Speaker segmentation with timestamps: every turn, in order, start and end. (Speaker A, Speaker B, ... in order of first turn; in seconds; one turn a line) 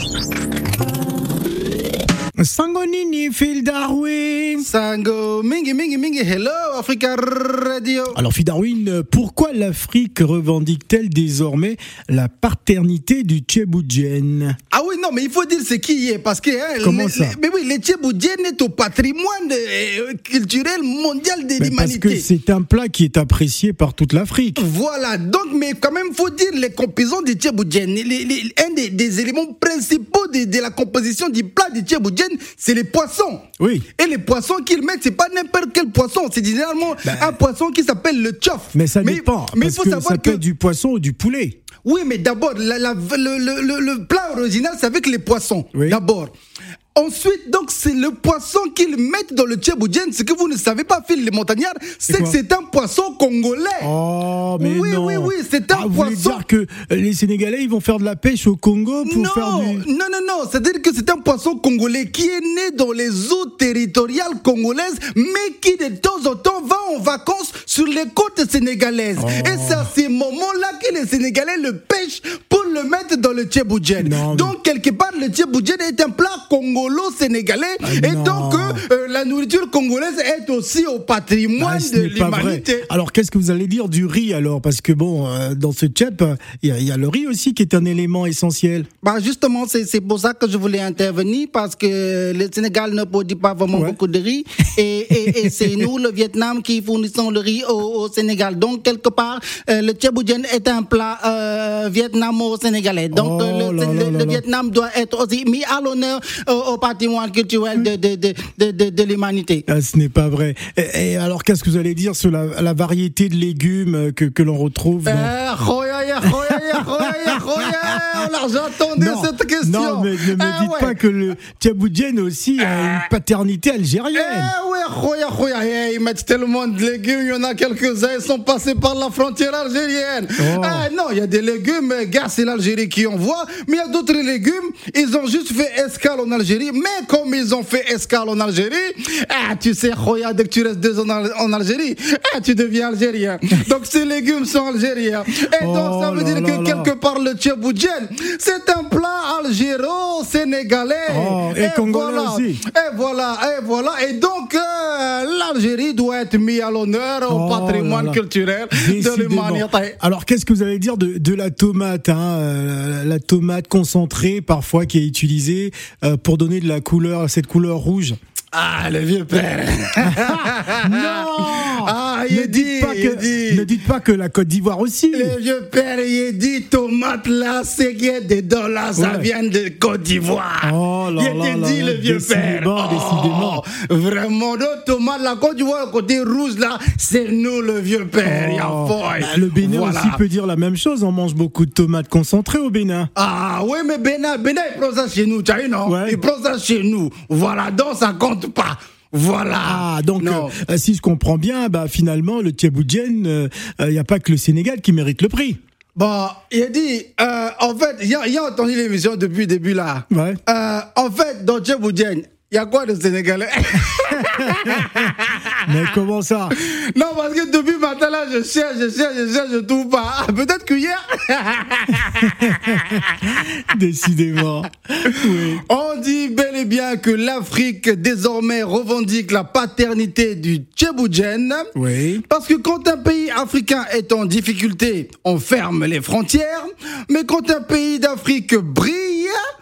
Speaker A: 2.4-4.7
Speaker B: 4.6-8.2
Speaker A: 8.2-14.6
Speaker B: 14.7-22.3
Speaker A: 16.8-17.4
Speaker A: 21.6-24.6
Speaker B: 24.6-33.4
Speaker A: 33.6-33.9
Speaker B: 34.0-40.4
Speaker A: 37.0-37.4
Speaker A: 38.7-41.6
Speaker B: 41.8-46.3
Speaker B: 47.0-53.9
Speaker A: 52.1-52.4
Speaker A: 53.8-59.9
Speaker B: 54.6-56.4
Speaker B: 59.0-82.9
Speaker A: 69.2-69.9
Speaker A: 74.0-74.5
Speaker A: 77.8-78.8
Speaker A: 81.6-88.9
Speaker B: 89.0-109.7
Speaker A: 93.7-94.0
Speaker A: 95.1-95.9
Speaker A: 103.1-104.4
Speaker A: 109.7-115.3
Speaker B: 115.0-121.0
Speaker A: 116.3-116.8
Speaker A: 117.3-118.0
Speaker A: 119.0-124.5
Speaker B: 122.7-123.0
Speaker B: 124.1-160.0
Speaker A: 130.4-130.9
Speaker A: 145.6-146.9
Speaker A: 151.1-152.6
Speaker A: 157.3-158.2
Speaker A: 158.7-168.2
Speaker B: 168.5-173.7
Speaker A: 170.2-175.4
Speaker B: 175.1-190.2
Speaker A: 178.9-179.3
Speaker A: 180.6-183.6
Speaker A: 188.2-193.1
Speaker B: 193.2-200.5
Speaker A: 195.8-196.2
Speaker A: 199.6-205.6
Speaker B: 206.0-215.7
Speaker A: 210.1-210.4
Speaker A: 215.7-216.6
Speaker B: 216.5-223.1
Speaker A: 222.2-225.6
Speaker B: 225.6-231.7
Speaker A: 231.8-232.2
Speaker B: 232.3-239.4